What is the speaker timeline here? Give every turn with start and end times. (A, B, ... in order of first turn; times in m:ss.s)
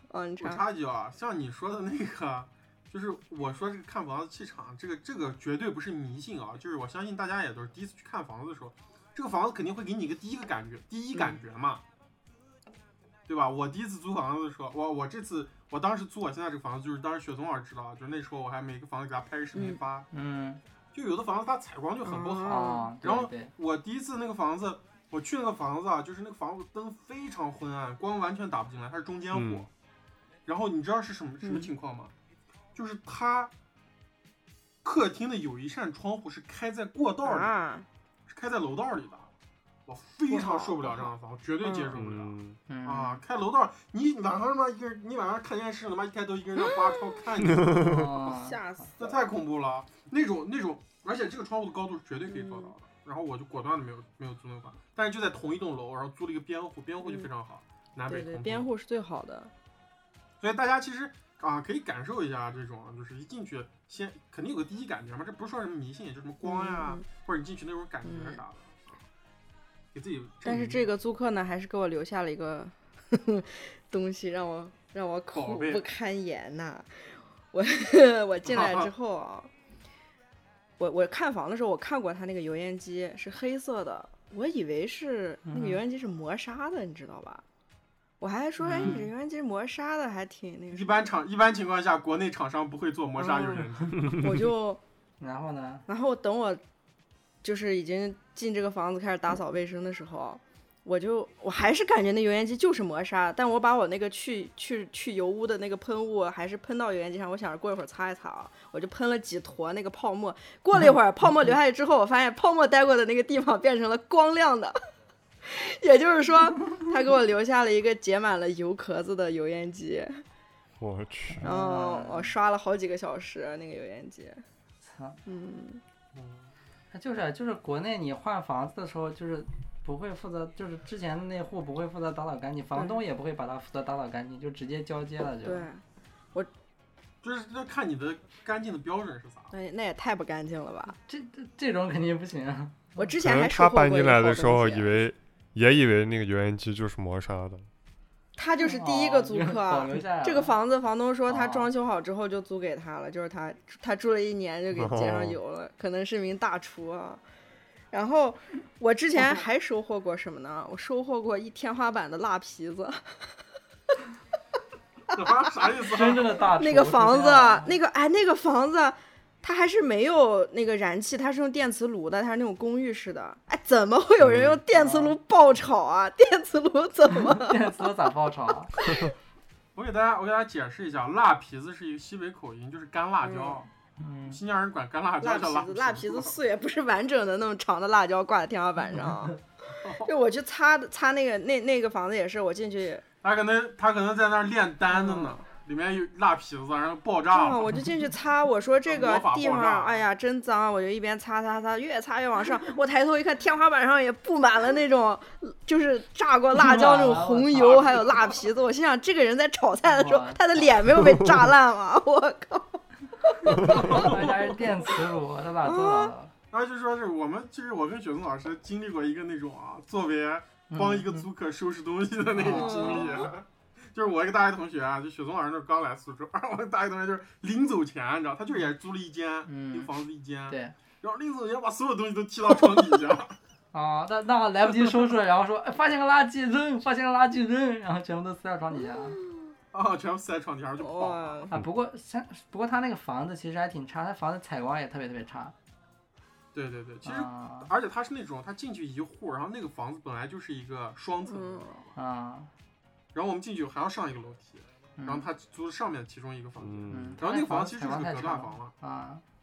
0:00.1-0:00.6 A
0:00.4-0:11.8 B
0:13.3-0:20.1 B
0:19.5-0:19.8 A
0:20.1-0:20.6 C
0:20.9-0:29.7 B
0:22.0-0:22.9 A
0:22.5-0:23.5 C
0:29.3-0:29.7 D
0:30.4-0:32.1 B
0:31.4-0:31.7 A
0:32.7-0:33.5 B
0:34.8-0:37.5 B
0:37.2-0:37.9 A
0:38.3-0:39.3 B
0:39.8-0:48.0 B
0:40.3-0:41.1 A
0:41.6-0:41.9 A
0:41.9-0:42.6 D
0:42.7-0:43.2 C
0:46.7-0:47.2 A
0:47.4-0:48.1 D
0:47.7-0:48.6 C
0:48.2-0:49.2 A
0:49.0-0:58.7 B
0:52.3-0:52.7 A
0:57.0-0:57.3 A
0:58.1-0:59.5 A
1:00.4-1:08.8 B
1:06.4-1:07.0 A
1:08.0-1:08.4 A
1:09.9-1:10.8 B
1:10.4-1:19.5 A
1:15.3-1:15.8 B
1:18.5-1:18.9 B
1:20.8-1:27.4 A
1:25.4-1:25.8 C
1:28.2-1:31.0 A
1:28.6-1:29.1 C
1:30.7-1:34.2 B
1:33.2-1:34.8 A
1:35.2-1:35.8 C
1:35.9-1:36.6 A
1:37.4-1:54.8 A
1:55.4-2:00.2 A
2:00.8-2:01.5 D
2:01.3-2:02.3 C
2:01.4-2:04.4 A
2:04.8-2:05.2 C
2:05.2-2:05.8 A
2:06.1-2:06.5 B
2:06.9-2:15.7 C
2:12.7-2:13.0 A
2:15.4-2:15.8 A
2:17.2-2:19.5 B
2:19.5-2:20.9 A
2:20.9-2:23.0 C
2:23.0-2:24.9 A
2:23.2-2:27.7 D
2:28.4-2:37.2 A
2:28.6-2:30.6 C
2:31.3-2:31.7 C
2:34.7-2:35.4 D
2:37.9-2:43.0 A
2:45.1-2:46.4 B
2:45.8-2:47.8 C
2:46.5-2:57.9 A
2:54.2-2:54.6 D
2:54.7-2:55.2 C
2:57.1-2:58.8 C
2:58.8-2:59.1 A
2:59.7-3:03.7 B
3:03.2-3:03.6 A
3:04.0-3:04.4 C
3:04.3-3:06.3 B
3:05.2-3:09.4 A
3:09.8-3:10.1 B
3:10.0-3:13.0 A
3:13.2-3:17.8 B
3:14.9-3:15.4 A
3:17.3-3:34.1 A
3:18.8-3:20.0 B
3:26.5-3:28.3 C
3:29.8-3:31.0 C
3:33.5-3:36.3 C
3:33.7-3:34.4 B
3:35.6-3:36.1 A
3:36.5-3:53.4 B
3:40.7-3:41.3 C
3:42.3-3:43.3 C
3:42.4-3:43.3 A
3:49.5-3:49.9 C
3:50.5-3:50.7 C
3:53.7-3:59.2 C
3:59.7-4:01.4 B
4:00.8-4:01.5 A
4:01.5-4:05.5 C
4:06.5-4:11.9 B
4:07.0-4:07.7 C
4:11.3-4:11.8 A
4:12.0-4:12.5 C
4:13.1-4:18.7 B
4:15.0-4:15.2 C
4:16.6-4:17.2 D
4:16.9-4:19.2 C